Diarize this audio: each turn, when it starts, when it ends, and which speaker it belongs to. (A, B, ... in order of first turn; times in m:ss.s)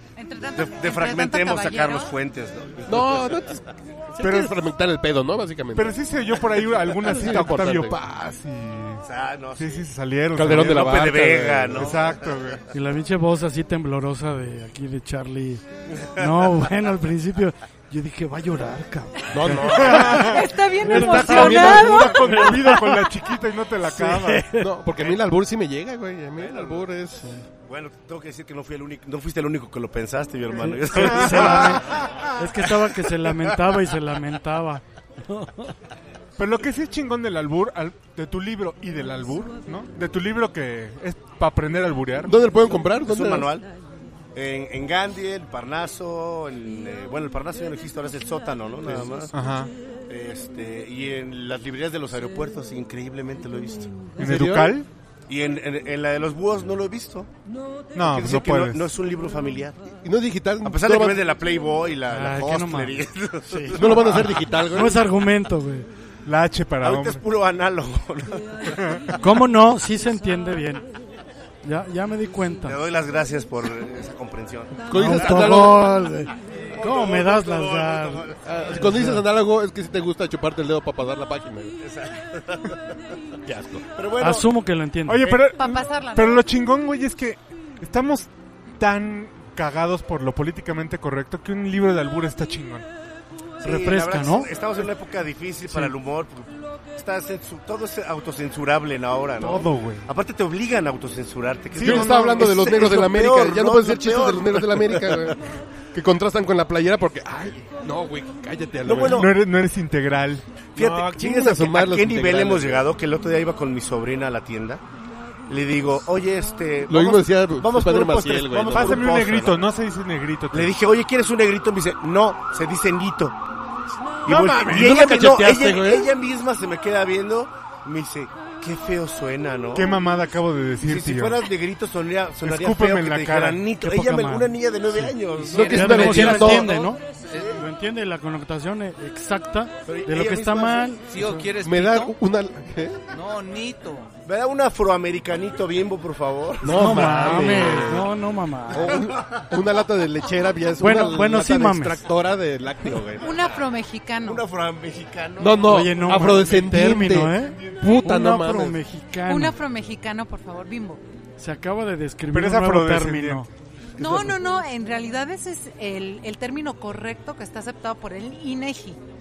0:00.2-0:02.1 A
0:00.5-0:03.4 B
0:02.9-0:06.0 C
0:04.2-0:04.6 D
0:05.8-0:09.0 D
0:07.0-0:08.0 C
0:09.0-0:09.9 B
0:09.6-0:12.6 D
0:10.3-0:11.9 C
0:10.4-0:12.2 B
0:12.7-0:23.2 E
0:19.3-0:20.2 C
0:19.8-0:20.5 D
0:20.1-0:22.5 A
0:20.9-0:22.2 C
0:21.0-0:24.5 D
0:23.9-0:24.7 E
0:24.5-0:27.3 C
0:25.0-0:25.3 B
0:26.4-0:26.9 B
0:27.7-0:32.1 B
0:30.6-0:35.7 E
0:31.2-0:32.3 D
0:36.4-0:42.3 D
0:42.2-0:43.5 C
0:43.1-0:43.7 B
0:44.3-0:49.3 B
0:48.8-0:49.2 C
0:49.3-0:49.7 D
0:50.1-0:54.2 B
0:54.2-0:54.8 C
0:54.2-0:54.9 D
0:55.3-0:57.3 B
0:58.0-0:58.9 D
0:58.0-0:59.8 B
1:00.0-1:01.2 C
1:00.6-1:04.4 B
1:02.1-1:05.9 E
1:03.7-1:05.0 C
1:06.3-1:07.2 D
1:06.8-1:08.8 B
1:09.2-1:10.9 E
1:11.6-1:12.8 E
1:12.7-1:15.5 B
1:14.9-1:16.2 C
1:14.9-1:16.3 E
1:16.6-1:18.4 B
1:16.8-1:19.2 E
1:18.4-1:21.7 C
1:21.8-1:22.8 B
1:23.4-1:23.9 C
1:24.0-1:24.5 B
1:24.2-1:25.3 E
1:25.1-1:32.8 D
1:25.6-1:26.5 A
1:33.6-1:45.4 B
1:33.6-1:34.5 E
1:35.7-1:35.9 E
1:39.4-1:40.1 D
1:41.8-1:45.4 C
1:41.8-1:42.1 D
1:45.9-1:49.3 C
1:48.8-1:49.3 B
1:49.1-1:50.5 D
1:50.8-1:54.8 B
1:50.8-1:52.9 C
1:55.5-1:59.5 B
1:56.9-1:59.3 C
1:58.7-2:00.8 D
2:00.5-2:03.4 B
2:04.3-2:04.7 D
2:04.3-2:06.1 C
2:04.3-2:10.0 B
2:09.7-2:11.4 D
2:10.8-2:16.7 B
2:12.4-2:13.6 D
2:13.8-2:21.5 E
2:15.5-2:16.8 C
2:15.5-2:17.6 F
2:19.9-2:21.0 B
2:21.1-2:22.1 F
2:21.6-2:23.0 C
2:23.1-2:24.1 F
2:24.3-2:28.0 B
2:26.6-2:28.1 C
2:26.7-2:29.0 E
2:28.7-2:33.3 C
2:30.8-2:32.0 E
2:33.2-2:34.4 A
2:34.2-2:35.8 B
2:35.4-2:38.8 C
2:35.7-2:39.6 E
2:37.6-2:38.0 D
2:39.3-2:41.0 A
2:41.4-2:43.5 E
2:42.3-2:43.5 D
2:44.0-2:49.0 A